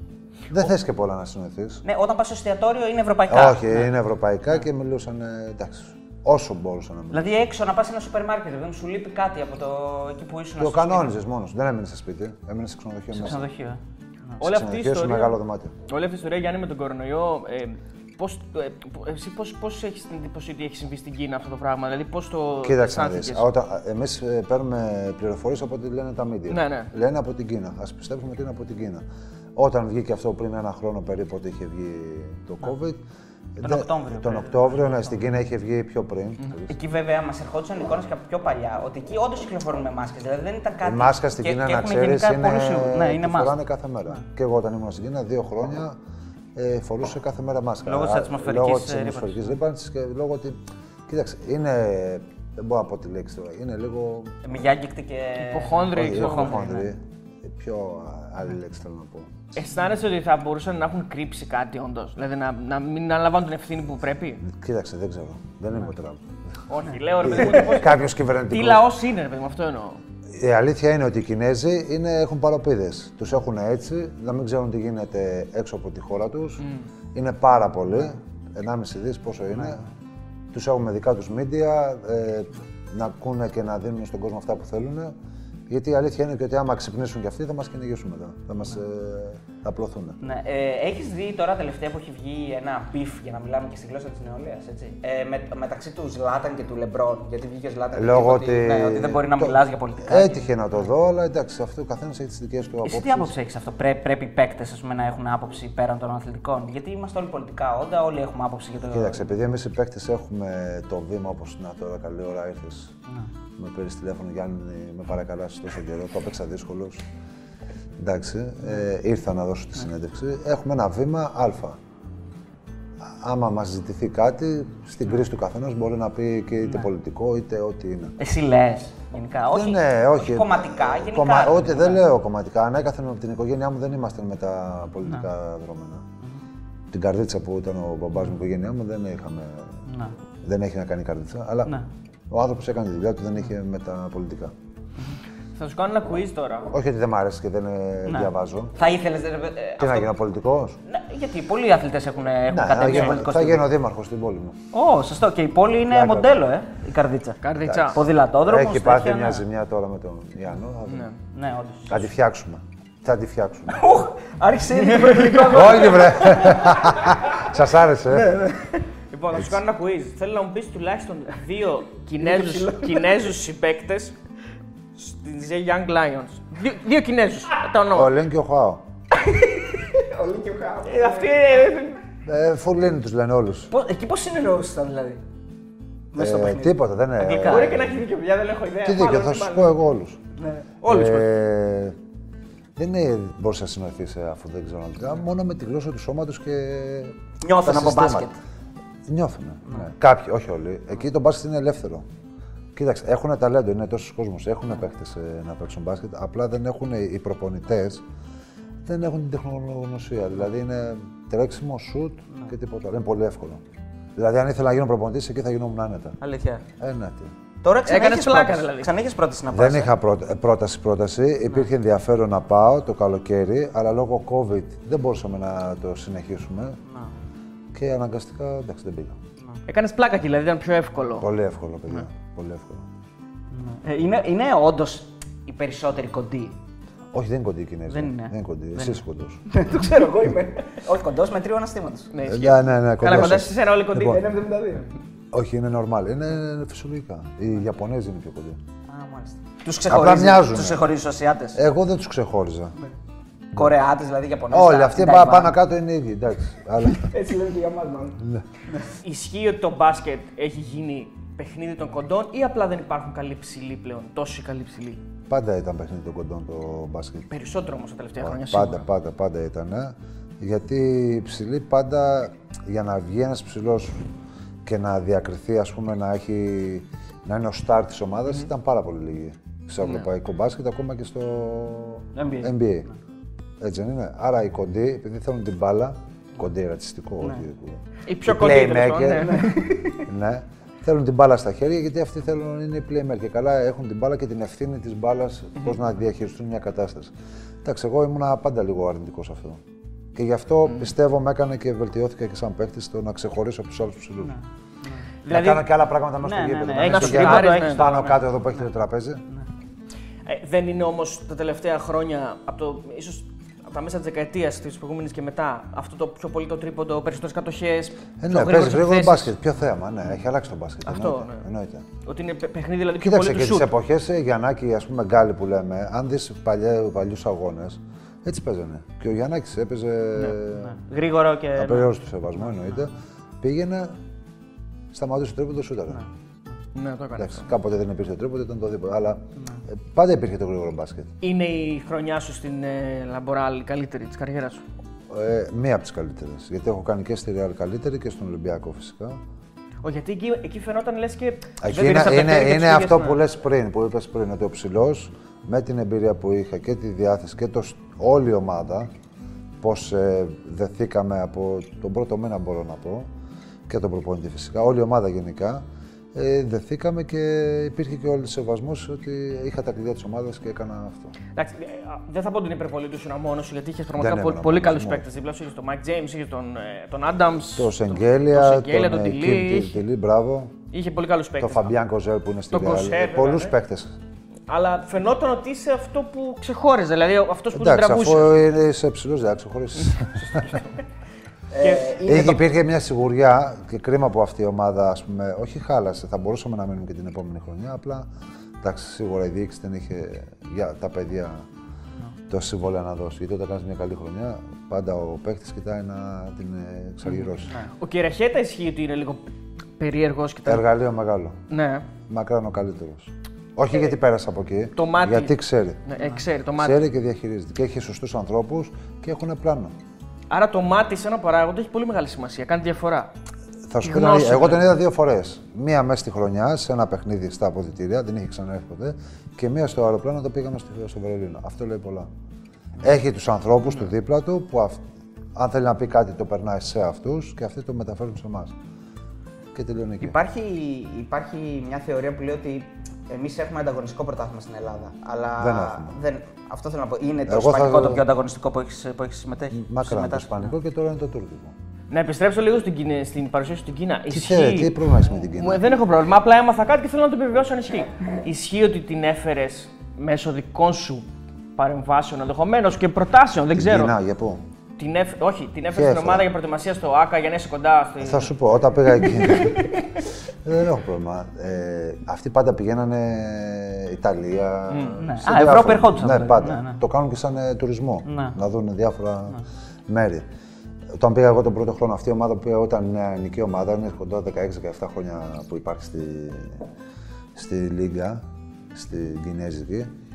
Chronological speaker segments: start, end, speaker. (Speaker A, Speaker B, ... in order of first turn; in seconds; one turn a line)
Speaker A: 0.5-1.8
Speaker B: 1.8-3.9
Speaker A: 3.3-7.2
Speaker B: 7.1-11.1
Speaker A: 10.6-13.5
Speaker B: 13.1-14.4
Speaker A: 14.4-15.7
Speaker C: 14.4-15.3
Speaker C: 15.9-23.4
Speaker A: 22.6-29.0
Speaker C: 26.5-26.9
Speaker A: 29.6-33.0
Speaker A: 33.5-36.7
Speaker B: 33.6-35.2
Speaker B: 36.7-43.5
Speaker A: 40.8-45.9
Speaker A: 46.5-54.4
Speaker B: 47.8-49.6
Speaker B: 54.4-56.9
Speaker C: 55.4-56.8
Speaker A: 55.9-59.5
Speaker C: 59.5-64.4
Speaker A: 64.4-66.6
Speaker C: 66.7-70.0
Speaker A: 67.2-68.8
Speaker A: 70.3-76.6
Speaker C: 76.6-76.8
Speaker A: 77.1-79.8
Speaker B: 79.5-79.8
Speaker A: 80.5-85.1
Speaker A: 85.7-90.2
Speaker B: 90.2-100.8
Speaker A: 97.9-103.3
Speaker B: 102.8-109.3
Speaker A: 108.8-112.9
Speaker A: 113.5-117.0
Speaker A: 118.0-121.8
Speaker A: 123.0-128.1
Speaker B: 128.2-132.0
Speaker A: 129.5-136.0
Speaker A: 136.9-139.8
Speaker B: 139.8-140.1
Speaker A: 140.4-141.7
Speaker A: 142.3-144.5
Speaker C: 145.6-146.7
Speaker A: 146.7-148.8
Speaker B: 148.1-150.1
Speaker A: 149.8-150.8
Speaker B: 150.8-153.6
Speaker A: 152.5-154.6
Speaker B: 154.7-159.4
Speaker A: 155.9-156.3
Speaker C: 157.4-158.0
Speaker A: 157.6-161.1
Speaker C: 160.9-161.2
Speaker B: 161.3-162.1
Speaker A: 161.9-163.8
Speaker B: 163.7-167.2
Speaker C: 165.0-165.7
Speaker A: 165.5-168.3
Speaker B: 168.1-168.8
Speaker C: 169.1-174.2
Speaker B: 172.2-173.2
Speaker C: 174.9-178.1
Speaker A: 177.9-178.8
Speaker B: 179.1-181.8
Speaker C: 180.8-182.0
Speaker A: 182.2-183.7
Speaker B: 183.7-185.2
Speaker B: 186.1-187.7
Speaker A: 186.2-188.0
Speaker C: 187.3-189.8
Speaker A: 188.8-190.2
Speaker B: 190.4-190.7
Speaker C: 190.8-191.3
Speaker A: 190.8-192.0
Speaker A: 192.8-198.3
Speaker B: 197.4-198.3
Speaker A: 199.1-202.0
Speaker A: 202.7-208.0
Speaker A: 208.8-213.6
Speaker A: 214.2-216.2
Speaker B: 216.2-216.6
Speaker A: 216.8-217.3
Speaker B: 217.6-219.9
Speaker C: 217.9-218.9
Speaker A: 219.5-226.8
Speaker B: 226.8-227.1
Speaker A: 227.7-229.2
Speaker C: 229.7-231.3
Speaker A: 231.2-232.9
Speaker B: 233.5-236.5
Speaker A: 237.1-239.4
Speaker B: 237.9-242.1
Speaker C: 242.1-244.3
Speaker A: 242.2-244.2
Speaker B: 243.0-244.9
Speaker A: 245.3-248.6
Speaker B: 248.9-251.6
Speaker A: 249.9-250.9
Speaker A: 251.5-252.7
Speaker B: 253.5-255.5
Speaker A: 254.5-257.1
Speaker B: 256.9-258.2
Speaker A: 258.2-258.4
Speaker C: 259.0-265.0
Speaker A: 265.3-267.3
Speaker C: 267.3-268.8
Speaker A: 268.2-274.0
Speaker A: 274.6-282.9
Speaker B: 282.1-282.5
Speaker A: 283.6-299.6
Speaker C: 288.1-289.6
Speaker B: 289.2-290.1
Speaker A: 300.1-304.3
Speaker B: 304.2-305.5
Speaker C: 305.2-305.6
Speaker A: 305.2-309.2
Speaker B: 306.2-308.6
Speaker C: 306.8-307.9
Speaker C: 310.2-319.3
Speaker A: 318.2-321.8
Speaker C: 320.8-321.5
Speaker C: 322.0-323.7
Speaker A: 323.0-330.8
Speaker C: 330.1-330.4
Speaker B: 330.5-331.9
Speaker A: 331.5-333.9
Speaker A: 334.9-336.0
Speaker C: 336.7-337.5
Speaker A: 337.2-341.1
Speaker C: 341.2-344.6
Speaker A: 345.1-349.2
Speaker C: 349.8-353.2
Speaker A: 351.6-358.9
Speaker A: 359.6-363.1
Speaker A: 363.7-365.6
Speaker A: 366.1-371.1
Speaker C: 371.4-379.8
Speaker A: 374.0-375.0
Speaker A: 377.5-380.5
Speaker C: 380.7-381.7
Speaker A: 381.4-383.9
Speaker C: 382.5-383.5
Speaker C: 384.5-388.4
Speaker A: 387.5-390.6
Speaker C: 389.8-390.8
Speaker B: 391.5-392.3
Speaker C: 391.6-392.4
Speaker A: 392.0-398.1
Speaker A: 398.6-401.4
Speaker A: 402.3-407.5
Speaker C: 407.1-410.6
Speaker A: 410.5-411.4
Speaker C: 411.5-411.9
Speaker A: 412.1-415.8
Speaker C: 414.8-415.3
Speaker C: 415.9-416.8
Speaker A: 416.6-419.7
Speaker C: 420.3-423.1
Speaker A: 423.7-432.1
Speaker C: 423.8-424.7
Speaker A: 432.8-434.8
Speaker A: 435.3-438.5
Speaker A: 439.5-440.1
Speaker B: 440.0-450.5
Speaker A: 445.4-445.9
Speaker A: 447.3-448.0
Speaker A: 449.5-451.6
Speaker C: 451.9-463.9
Speaker A: 454.1-455.7
Speaker A: 463.5-464.4
Speaker C: 464.8-468.3
Speaker A: 465.7-466.3
Speaker A: 468.0-469.7
Speaker C: 469.0-469.8
Speaker A: 470.4-480.2
Speaker C: 474.7-475.0
Speaker B: 475.0-476.8
Speaker B: 478.1-478.4
Speaker A: 480.9-486.7
Speaker A: 487.3-489.9